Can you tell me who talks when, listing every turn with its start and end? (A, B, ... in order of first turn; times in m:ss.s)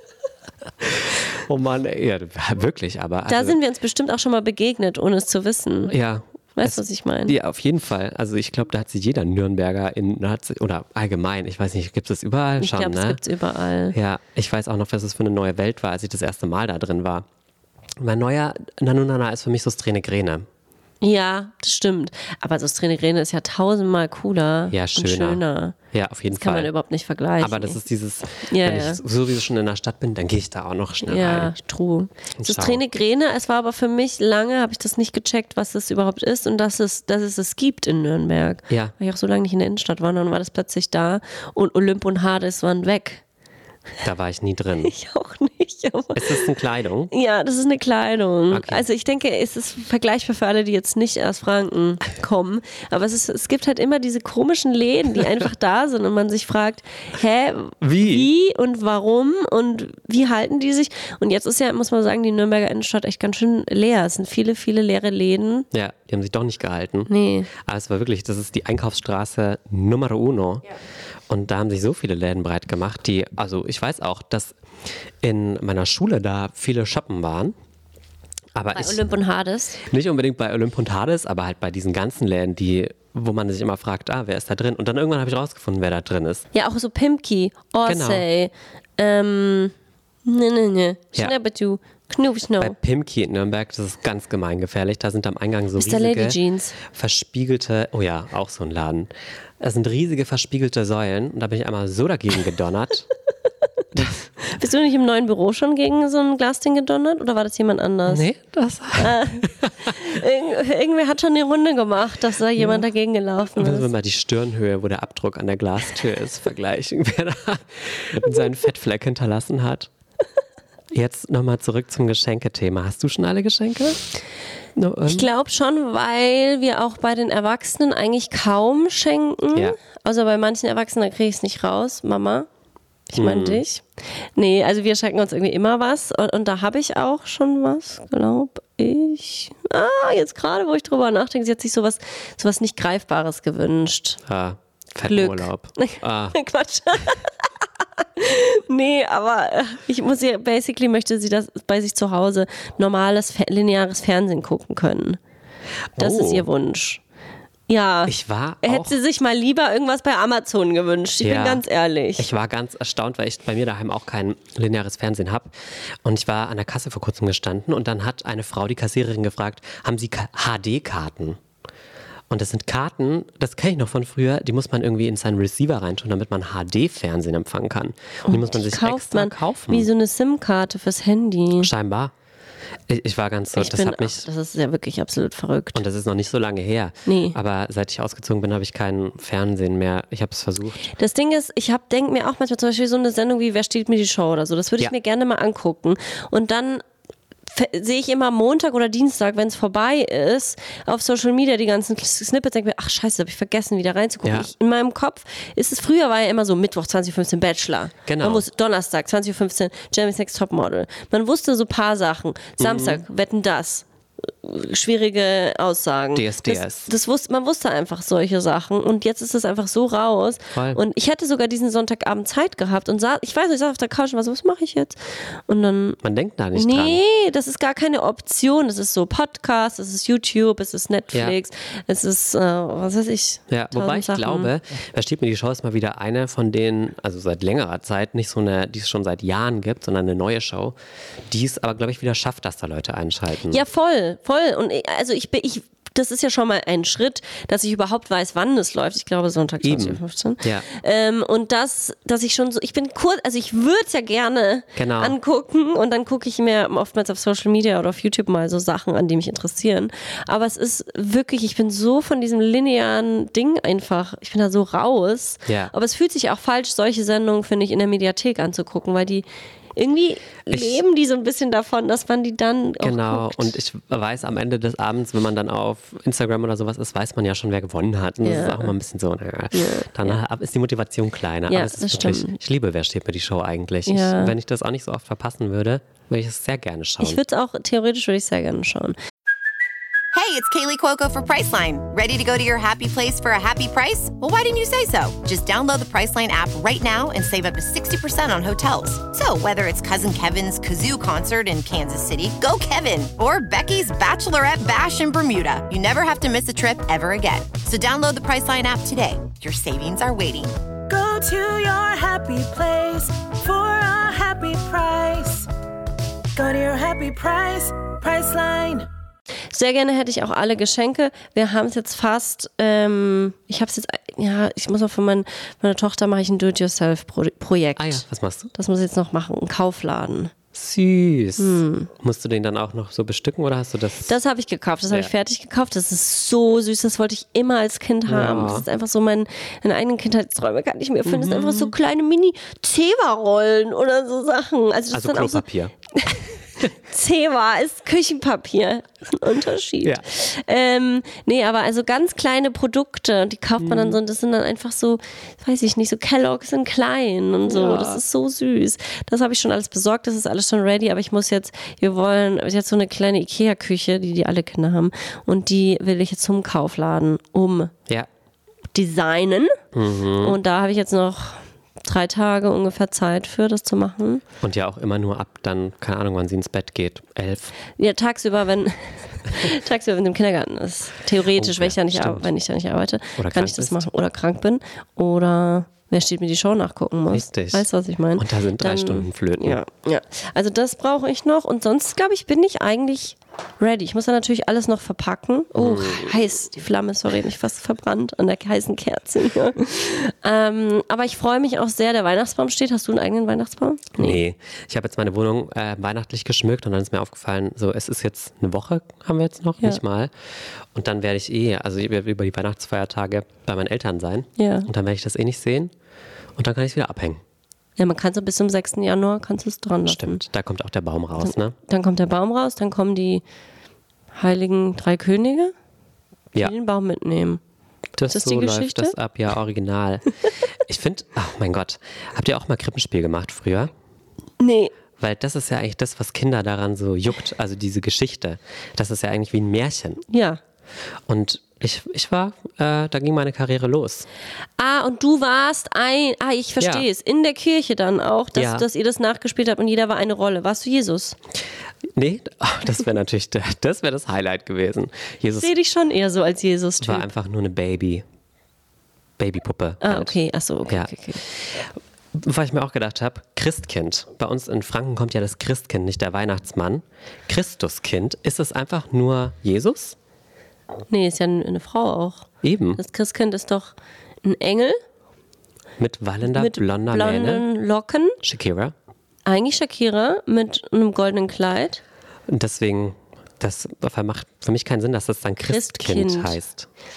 0:00.8-0:03.6 A
0:03.3-0:05.9 B
0:05.9-0:13.2 A
0:06.6-0:07.4 B
0:12.6-0:14.0 B
0:13.9-0:17.3 A
0:18.0-0:20.5 A
0:21.0-0:25.8 B
0:24.7-0:26.7 A
0:26.3-0:27.8 B
0:27.4-0:31.5 A
0:28.4-0:29.0 B
0:31.0-0:43.2 B
0:32.4-0:32.8 A
0:38.7-0:38.9 A
0:44.0-0:44.9 A
0:44.8-0:46.5 B
0:46.2-0:47.1 A
0:47.1-1:05.7 B
0:48.5-0:48.8 A
0:57.8-0:58.3 A
1:05.7-1:10.7 A
1:07.1-1:07.5 B
1:11.3-1:14.6 A
1:15.2-1:17.6 A
1:18.6-1:19.1 A
1:18.8-1:19.8 B
1:19.8-1:26.5 A
1:26.5-1:29.7 B
1:27.8-1:28.3 A
1:30.3-1:32.8 B
1:32.6-1:43.1 A
1:35.8-1:36.8 B
1:43.9-1:44.2 A
1:44.4-1:48.3 B
1:48.1-1:50.1 A
1:49.0-1:53.9 B
1:52.6-1:52.9 A
1:53.6-1:59.9 A
2:00.9-2:04.0 A
2:04.8-2:05.3 A
2:05.1-2:12.5 B
2:13.1-2:13.8 B
2:13.2-2:13.6 A
2:14.4-2:24.2 B
2:24.3-2:26.4 A
2:25.1-2:27.3 B
2:28.0-2:35.2 B
2:36.0-2:36.5 A
2:36.0-2:37.0 B
2:37.7-2:42.3 B
2:38.1-2:39.0 A
2:41.2-2:41.6 A
2:42.2-2:51.4 A
2:52.3-2:59.9 A
2:58.3-3:01.7 B
3:01.6-3:02.1 A
3:02.9-3:04.3 A
3:03.5-3:05.8 B
3:05.7-3:10.9 A
3:07.1-3:07.4 B
3:10.9-3:16.8 B
3:17.5-3:46.0 B
3:24.2-3:24.5 A
3:28.1-3:28.5 A
3:32.6-3:33.0 A
3:36.1-3:36.9 A
3:40.5-3:40.8 A
3:46.0-3:47.0 A
3:46.6-3:54.5 B
3:53.5-4:00.8 A
4:01.3-4:03.6 A
4:03.5-4:33.5 B
4:09.6-4:10.7 A
4:14.8-4:15.2 A
4:25.5-4:25.7 A
4:30.5-4:30.8 A
4:32.8-4:47.2 A
4:38.2-4:38.7 B
4:39.5-4:40.2 B
4:41.5-4:42.4 B
4:43.9-4:44.3 B
4:47.0-4:49.0 B
4:50.1-5:10.6 C
5:10.9-5:15.5 D
5:16.4-5:18.9 D
5:19.5-5:30.3 B
5:27.8-5:28.5 A
5:30.5-5:34.2 A
5:31.4-5:31.9 B
5:34.1-6:07.7 B
5:38.1-5:38.7 A
5:41.0-5:41.7 A
5:44.9-5:45.7 A
5:53.6-5:54.0 A
5:57.5-5:58.0 A
6:08.7-6:09.6 B
6:09.7-6:10.4 A
6:10.2-6:14.2 B
6:14.4-6:17.5 A
6:17.8-6:44.2 B
6:21.3-6:22.3 A
6:23.2-6:23.9 A
6:27.1-6:29.6 A
6:35.6-6:36.2 A
6:44.0-6:50.1 A
6:50.7-6:55.7 A
6:54.4-6:54.7 B
6:56.4-6:57.2 A
6:57.8-7:00.2 B
6:59.9-7:01.6 A
7:01.2-7:03.2 B
7:04.1-7:05.5 B
7:06.4-7:07.4 B
7:08.0-7:10.0 A
7:08.1-7:09.0 B
7:10.7-7:13.7 A
7:14.4-7:14.7 B
7:15.0-7:20.0 A
7:20.1-7:20.4 B
7:21.1-7:24.1 A
7:24.6-7:31.2 B
7:26.6-7:26.9 A
7:28.4-7:28.7 A
7:31.9-7:35.5 A
7:35.4-7:37.1 B
7:36.8-7:38.0 A
7:39.2-7:50.0 A
7:39.8-7:41.2 B
7:50.9-7:54.8 B
7:52.4-7:52.8 A
7:55.8-7:57.4 A
7:56.3-7:58.2 B
7:58.2-7:58.7 A
7:59.3-8:01.8 B
8:02.3-8:06.7 A
8:05.4-8:06.4 B